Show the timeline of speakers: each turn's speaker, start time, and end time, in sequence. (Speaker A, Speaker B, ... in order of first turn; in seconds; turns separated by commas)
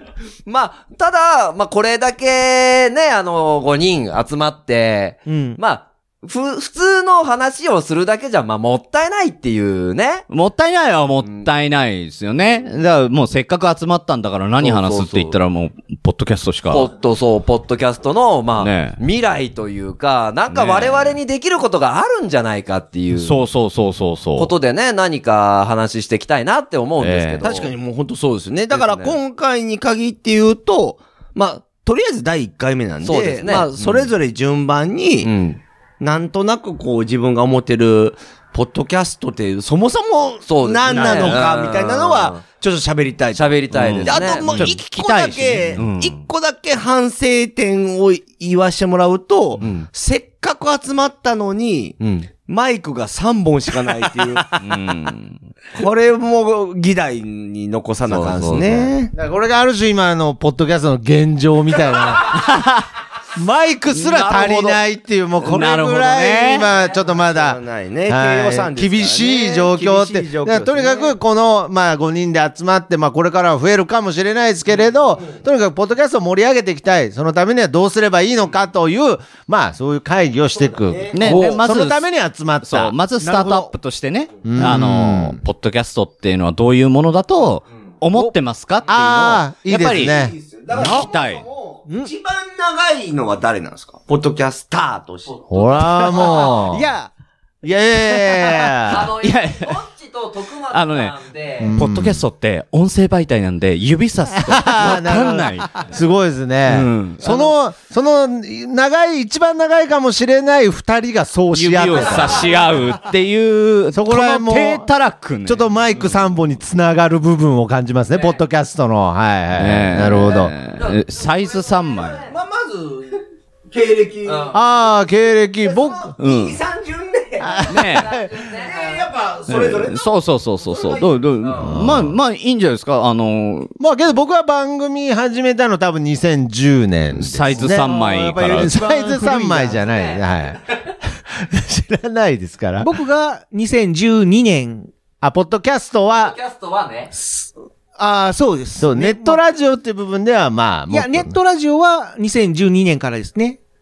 Speaker A: 0.5-10.3, Speaker B: 5.3-5.6, Speaker C: 10.3-16.9, Speaker A: 14.6-15.4, Speaker A: 16.7-23.4, Speaker C: 18.6-19.0, Speaker C: 20.5-21.2, Speaker C: 23.1-24.5, Speaker A: 24.4-27.7, Speaker C: 27.0-27.4, Speaker D: 27.4-35.3, Speaker A: 28.7-29.2, Speaker A: 33.0-34.1, Speaker A: 35.2-35.6, Speaker D: 36.0-54.6, Speaker A: 40.5-42.4, Speaker C: 40.9-41.5, Speaker A: 43.3-44.8, Speaker C: 43.7-46.2, Speaker A: 49.6-49.9, Speaker A: 52.0-52.3, Speaker C: 54.6-55.2, Speaker D: 55.7-59.1, Speaker A: 58.1-58.9, Speaker E: 59.1-62.5, Speaker C: 62.4-62.8, Speaker E: 63.4-83.0, Speaker C: 63.9-64.8, Speaker C: 65.4-66.7, Speaker D: 67.1-71.2, Speaker D: 80.5-81.6, Speaker C: 81.1-82.0, Speaker C: 82.6-90.2, Speaker B: 83.2-83.7, Speaker E: 84.4-85.4, Speaker E: 88.9-90.3, Speaker D: 89.8-95.4, Speaker C: 90.7-91.5, Speaker B: 91.9-92.1, Speaker A: 95.3-95.6, Speaker E: 95.5-96.9, Speaker B: 95.8-97.1, Speaker E: 97.6-99.1, Speaker B: 98.1-98.6, Speaker A: 98.8-101.8, Speaker C: 99.1-99.8, Speaker C: 100.7-101.2, Speaker E: 101.6-102.2, Speaker C: 101.7-105.9, Speaker E: 104.3-112.6, Speaker C: 106.7-107.3, Speaker C: 111.5-115.7, Speaker E: 113.9-114.9, Speaker E: 115.5-120.5, Speaker A: 118.1-118.4, Speaker C: 119.5-122.3, Speaker D: 122.2-124.6, Speaker A: 124.3-124.6, Speaker E: 124.5-126.1, Speaker D: 125.6-127.7, Speaker C: 126.2-126.6, Speaker E: 127.4-128.5, Speaker C: 127.7-128.1, Speaker A: 127.8-129.1, Speaker D: 128.6-130.1, Speaker C: 129.5-133.7, Speaker D: 130.7-131.1, Speaker E: 131.6-132.2, Speaker E: 133.8-140.6, Speaker C: 137.1-138.7, Speaker B: 137.9-139.8, Speaker A: 139.8-140.2, Speaker E: 141.2-142.9, Speaker B: 142.8-144.9, Speaker E: 145.2-146.3, Speaker A: 146.1-147.1, Speaker B: 148.0-149.4, Speaker E: 148.8-151.4, Speaker B: 150.9-153.6